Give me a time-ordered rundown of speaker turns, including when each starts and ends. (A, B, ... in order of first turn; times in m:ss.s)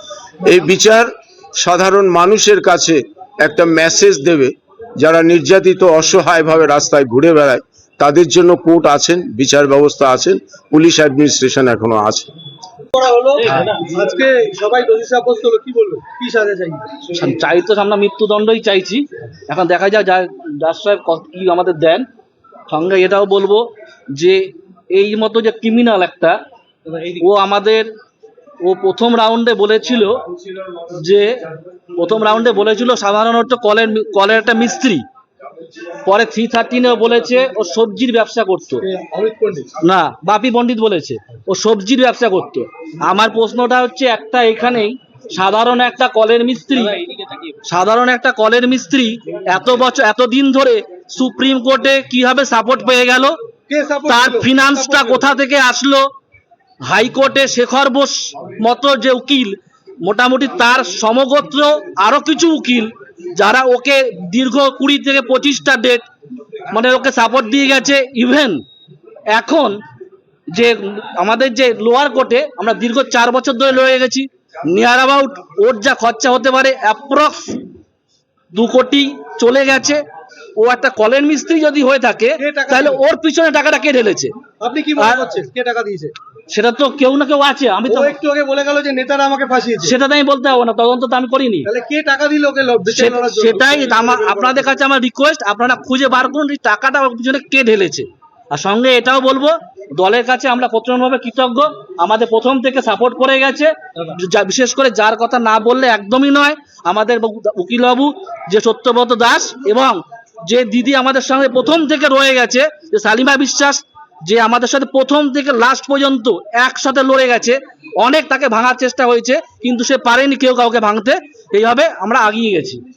0:00.4-0:12.3 A
0:13.0-0:16.8 B
0:13.4-0:13.8 C
0:17.1-0:22.1 C
0:22.7-0:26.4 C
0:27.2-0:27.9 C
0:28.6-0:30.2 C
0:30.9-0:31.4 C
0:32.0-0:35.1 C
0:36.0-0:38.9 C
0:38.8-0:39.7 B
0:39.8-0:47.0 C
0:47.7-0:53.4 C
0:53.7-0:55.2 B
0:54.1-0:56.1 C
0:56.8-1:06.1 C
1:06.7-1:08.6 C
1:09.3-1:09.8 C
1:10.5-1:17.6 C
1:18.5-1:20.0 C
1:20.6-1:24.3 C
1:22.4-1:23.0 B
1:24.6-1:26.1 B
1:25.0-1:25.4 C
1:26.5-1:28.2 C
1:27.9-1:29.9 B
1:29.8-1:31.7 C
1:31.7-1:34.6 B
1:32.9-2:02.8 C